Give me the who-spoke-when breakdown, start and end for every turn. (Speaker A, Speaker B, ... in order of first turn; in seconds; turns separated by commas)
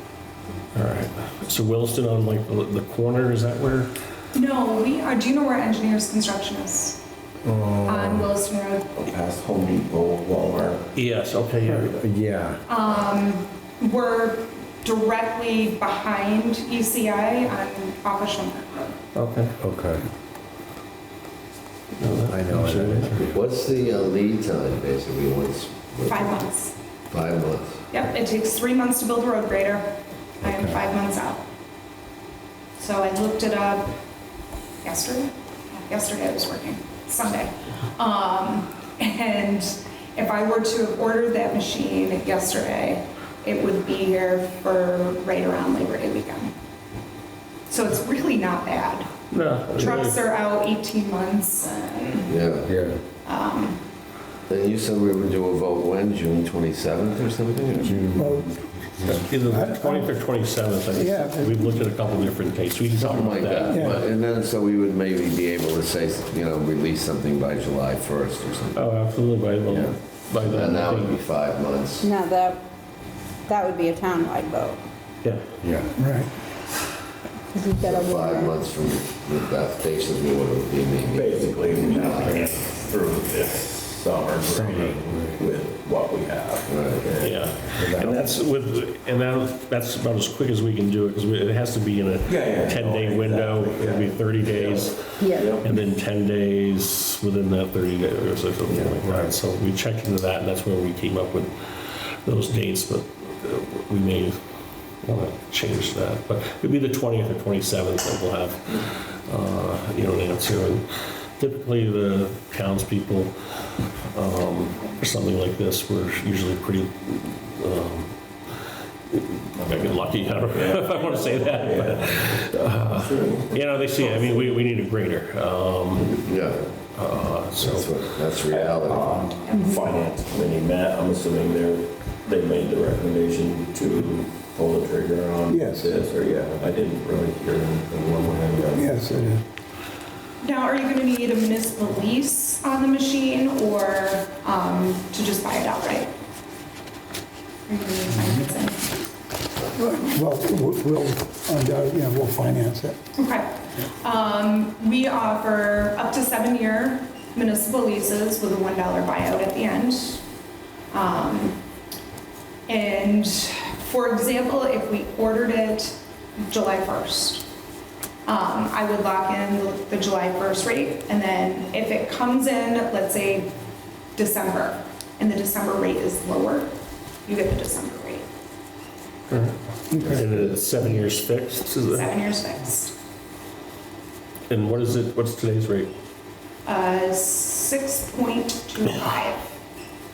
Speaker A: 0.7-3.9, Speaker B: 4.3-7.0, Speaker C: 7.5-8.3, Speaker B: 7.8-8.9, Speaker D: 9.0-10.9, Speaker A: 10.9-12.0, Speaker C: 11.6-12.6, Speaker B: 12.7-19.0, Speaker A: 19.1-19.5, Speaker C: 19.6-20.0, Speaker A: 22.0-23.3, Speaker C: 22.3-23.4, Speaker E: 23.2-26.4, Speaker B: 26.1-26.7, Speaker E: 27.1-27.8, Speaker B: 27.9-31.4, Speaker C: 30.4-30.8, Speaker B: 32.8-34.0, Speaker B: 34.8-46.5, Speaker B: 47.7-49.1, Speaker A: 49.3-50.2, Speaker B: 49.7-52.3, Speaker E: 52.3-52.7, Speaker C: 52.7-53.0, Speaker B: 53.2-53.8, Speaker E: 54.5-58.0, Speaker C: 57.9-58.4, Speaker F: 58.0-58.5, Speaker A: 59.0-64.0, Speaker F: 59.4-60.1, Speaker F: 60.9-61.9, Speaker E: 63.0-68.9, Speaker F: 63.7-64.0, Speaker A: 68.8-71.2, Speaker E: 69.7-72.1, Speaker G: 72.0-72.6, Speaker G: 73.5-74.8, Speaker C: 75.6-75.9, Speaker F: 75.9-76.3, Speaker G: 77.5-78.6, Speaker E: 77.8-82.5, Speaker D: 81.0-88.0, Speaker C: 84.5-85.0, Speaker E: 86.7-87.7, Speaker A: 87.2-104.4, Speaker C: 87.8-88.2, Speaker D: 92.3-95.7, Speaker G: 95.2-95.6, Speaker D: 98.7-99.2, Speaker A: 105.0-110.8, Speaker A: 111.4-113.3, Speaker A: 114.1-118.1, Speaker A: 119.1-126.2, Speaker D: 119.7-124.5, Speaker E: 126.2-126.6, Speaker A: 127.0-128.0, Speaker E: 127.5-129.3, Speaker D: 128.5-139.3, Speaker B: 129.4-129.8, Speaker F: 135.5-135.9, Speaker F: 138.7-139.4, Speaker B: 140.4-146.1, Speaker B: 147.7-149.0, Speaker F: 149.8-153.0, Speaker B: 153.2-160.2, Speaker B: 160.9-161.6, Speaker B: 162.7-167.4, Speaker B: 168.3-173.5, Speaker B: 174.2-176.7, Speaker B: 177.3-178.2, Speaker A: 179.3-182.1, Speaker B: 181.9-182.9, Speaker A: 184.5-185.9, Speaker B: 186.7-189.4